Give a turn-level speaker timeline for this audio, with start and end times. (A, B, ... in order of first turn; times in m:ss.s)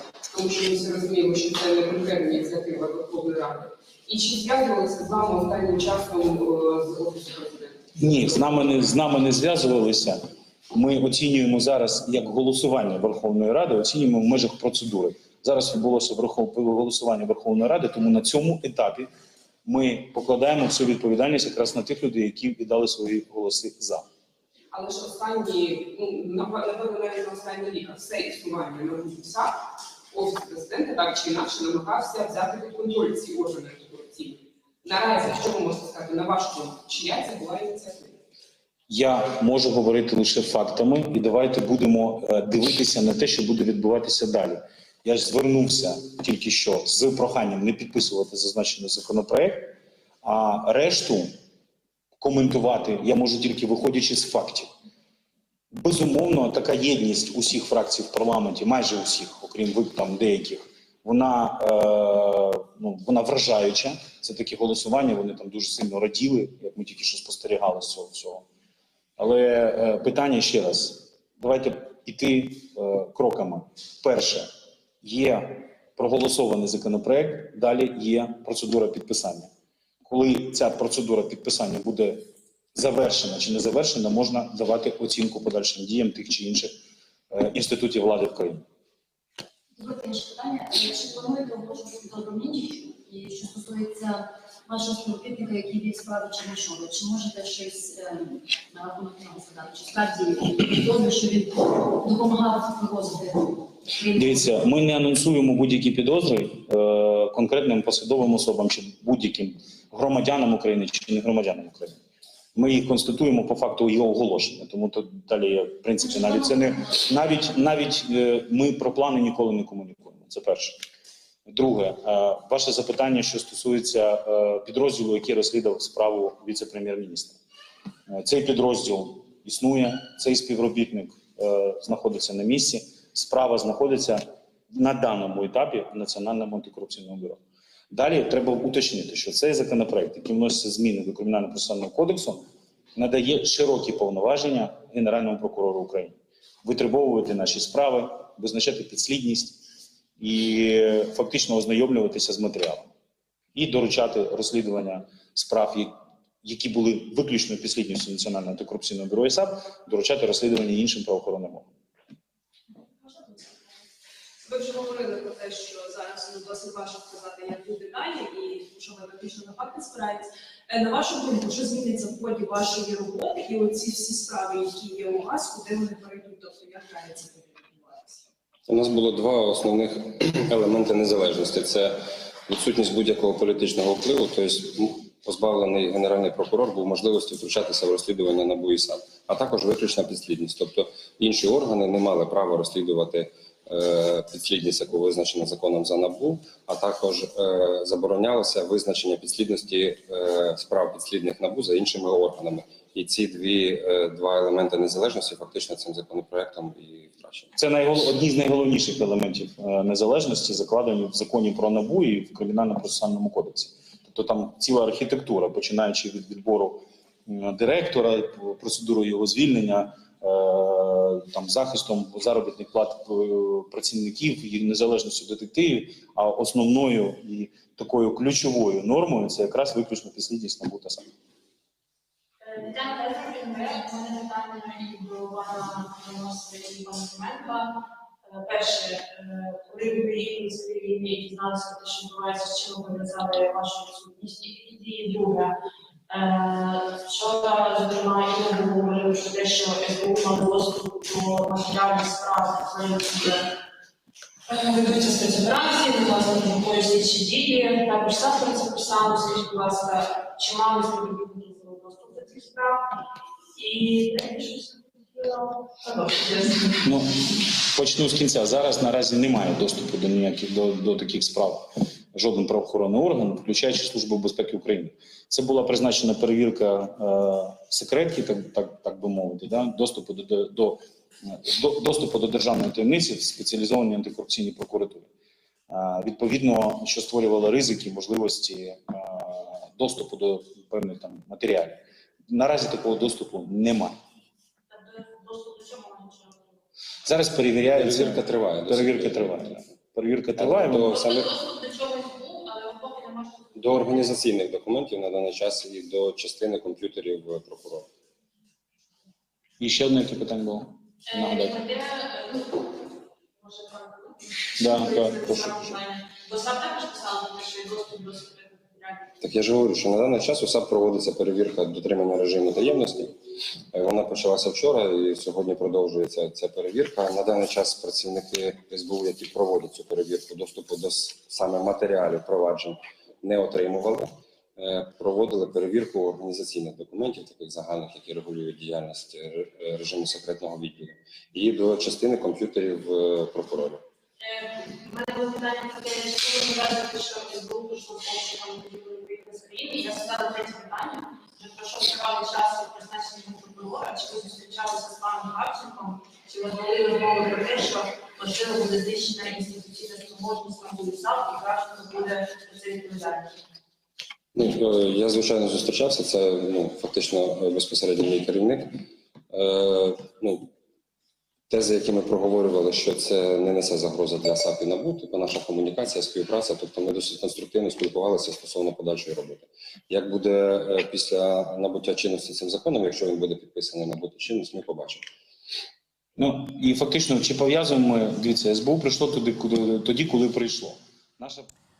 0:00.3-0:07.8 A
0:08.0-0:10.2 B
0:10.7-0:19.1 B
0:19.6-0:24.0 B
0:24.7-0:29.5 A
0:30.1-0:38.2 A
0:38.9-0:51.3 B
0:52.2-0:54.7 B
0:55.7-1:08.4 B
1:09.2-1:14.5 B
1:15.0-1:19.5 B
1:20.0-1:26.7 B
1:27.3-1:28.6 B
1:29.8-1:44.3 C
1:44.1-1:52.0 B
1:52.5-2:00.8 B
2:01.5-2:07.4 B
2:08.1-2:17.4 B
2:17.9-2:29.6 B
2:30.2-2:32.9 B
2:33.5-2:35.9 B
2:36.4-2:41.7 B
2:44.4-2:58.2 D
2:58.7-3:02.0 E
3:02.5-3:27.5 E
3:27.6-3:51.1 B
3:52.4-3:57.8 F
3:58.3-4:05.5 F
4:06.1-4:13.5 F
4:14.5-4:22.8 F
4:23.6-4:26.8 F
4:26.8-4:45.1 B
4:45.7-4:53.9 B
4:54.7-4:56.6 F
4:57.0-5:00.9 B
4:57.7-4:59.6 E
5:00.4-5:01.3 E
5:00.9-5:04.1 F
5:03.6-5:07.9 E
5:09.6-5:11.6 B
5:11.1-5:19.2 F
5:14.6-5:15.4 B
5:19.2-5:23.2 E
5:23.7-5:43.8 E
5:44.2-6:03.4 F
6:04.3-6:08.8 E
6:09.3-6:10.5 E
6:11.5-6:25.0 E
6:26.2-6:31.5 B